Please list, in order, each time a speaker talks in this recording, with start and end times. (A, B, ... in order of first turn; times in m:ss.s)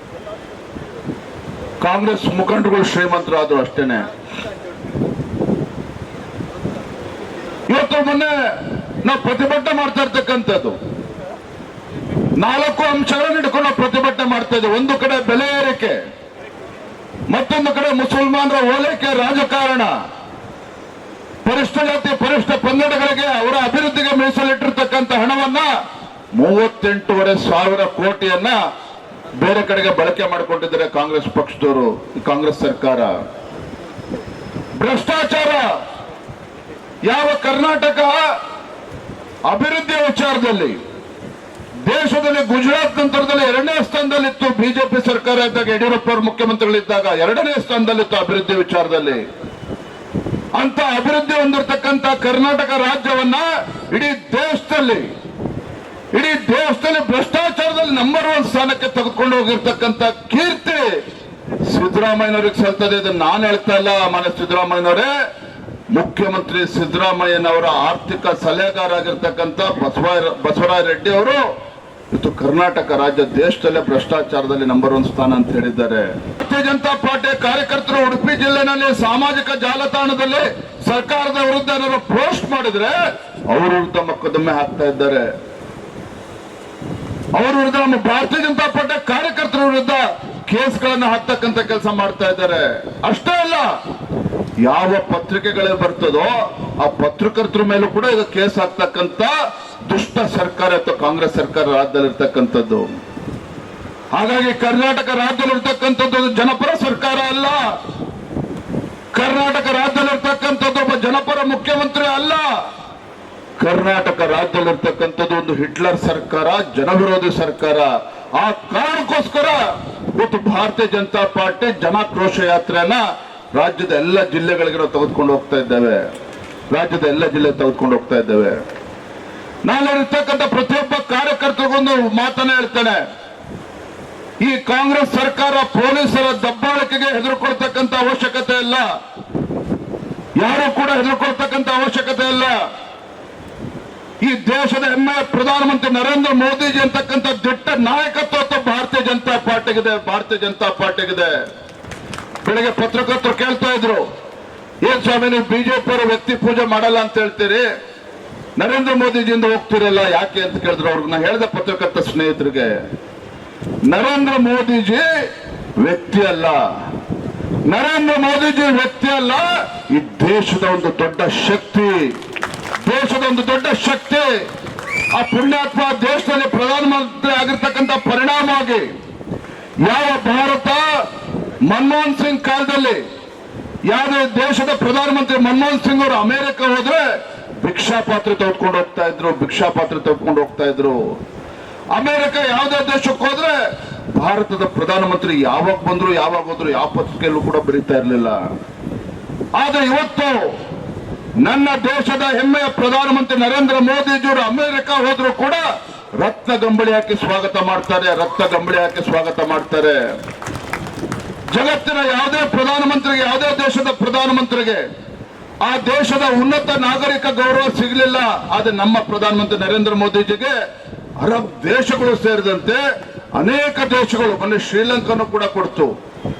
0:01.8-0:04.1 A
0:07.7-0:08.3 A
0:09.0-0:10.8 A
0:12.4-0:16.0 A
0:17.3-0:19.9 A
0:21.4-0:25.7 A
0:26.4-0:28.6 A
0:29.4-0:33.1 A
0:34.8-0:35.7 A
0:37.1-0:38.2 A
0:39.5-0:40.8 A
0:41.9-0:49.2 A
0:50.6-0:55.1 A
0:56.1-1:00.9 A
1:01.7-1:05.1 A
1:05.9-1:11.4 A
1:12.1-1:23.0 A
1:23.5-1:25.3 A
1:27.4-1:33.7 A
1:34.6-1:39.3 A
1:39.9-1:42.9 A
1:44.1-1:47.6 A
1:49.2-1:52.5 A
1:53.6-1:59.6 A
2:00.2-2:03.0 A
2:03.6-2:06.0 A
2:06.7-2:08.6 A
2:09.7-2:13.0 A
2:14.4-2:18.9 A
2:20.4-2:22.6 A
2:24.2-2:31.4 A
2:32.4-2:34.0 A
2:34.8-2:37.7 A
2:38.6-2:42.8 A
2:43.9-2:45.1 A
2:45.8-2:46.6 A
2:47.7-2:52.1 A
2:52.8-2:54.3 A
2:55.1-2:58.9 A
2:59.8-3:00.8 A
3:01.7-3:03.0 A
3:03.9-3:07.0 A
3:07.6-3:11.0 A
3:11.9-3:13.6 A
3:14.2-3:18.4 A
3:19.6-3:20.5 A
3:21.4-3:25.6 A
3:26.2-3:30.0 A
3:31.5-3:34.8 A
3:35.6-3:40.6 A
3:41.2-3:42.8 A
3:43.4-3:45.9 A